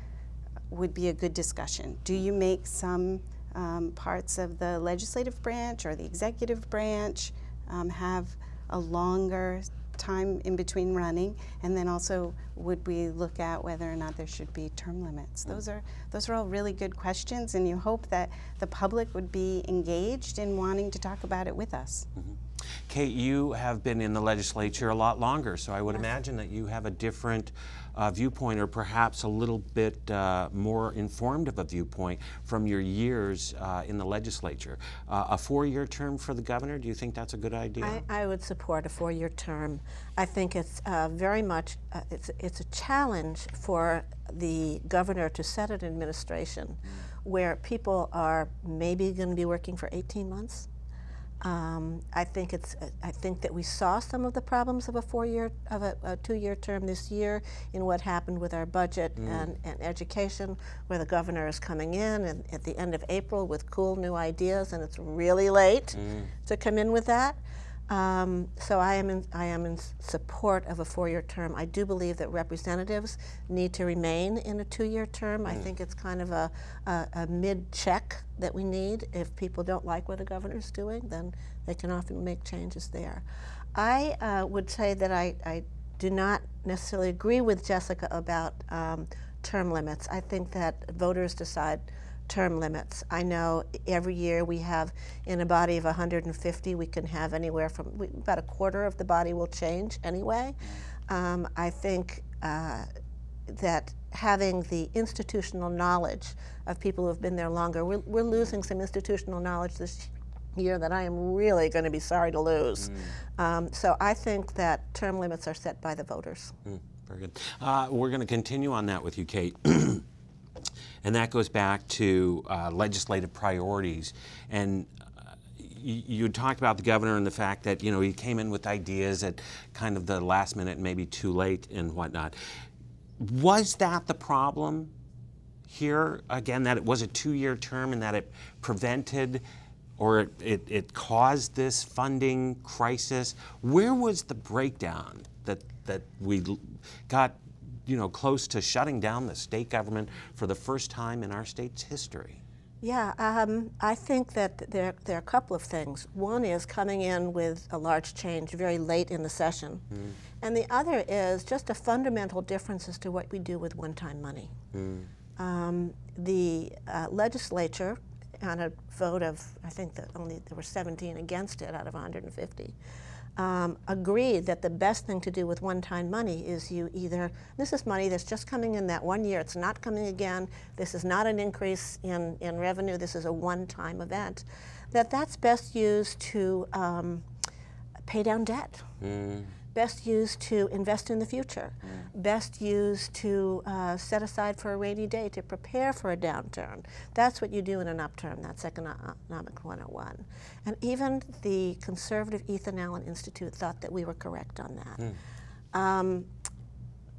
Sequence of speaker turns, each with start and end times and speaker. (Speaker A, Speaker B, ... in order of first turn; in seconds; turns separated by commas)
Speaker A: 0.7-22.1, Speaker B: 22.9-38.0, Speaker C: 37.8-50.7, Speaker C: 51.4-83.2, Speaker B: 59.2-59.4, Speaker B: 66.0-66.3, Speaker C: 83.7-100.5, Speaker C: 101.1-102.9, Speaker C: 103.5-116.5, Speaker B: 116.7-120.0, Speaker B: 121.0-124.9, Speaker B: 125.5-132.3, Speaker B: 133.2-134.9, Speaker B: 135.7-139.4, Speaker B: 140.0-152.4, Speaker C: 152.8-159.8, Speaker C: 160.4-164.5, Speaker B: 164.7-165.1, Speaker C: 165.4-172.7, Speaker C: 173.3-187.2, Speaker C: 188.0-188.9, Speaker B: 189.0-189.5, Speaker C: 189.7-205.1, Speaker C: 205.7-206.3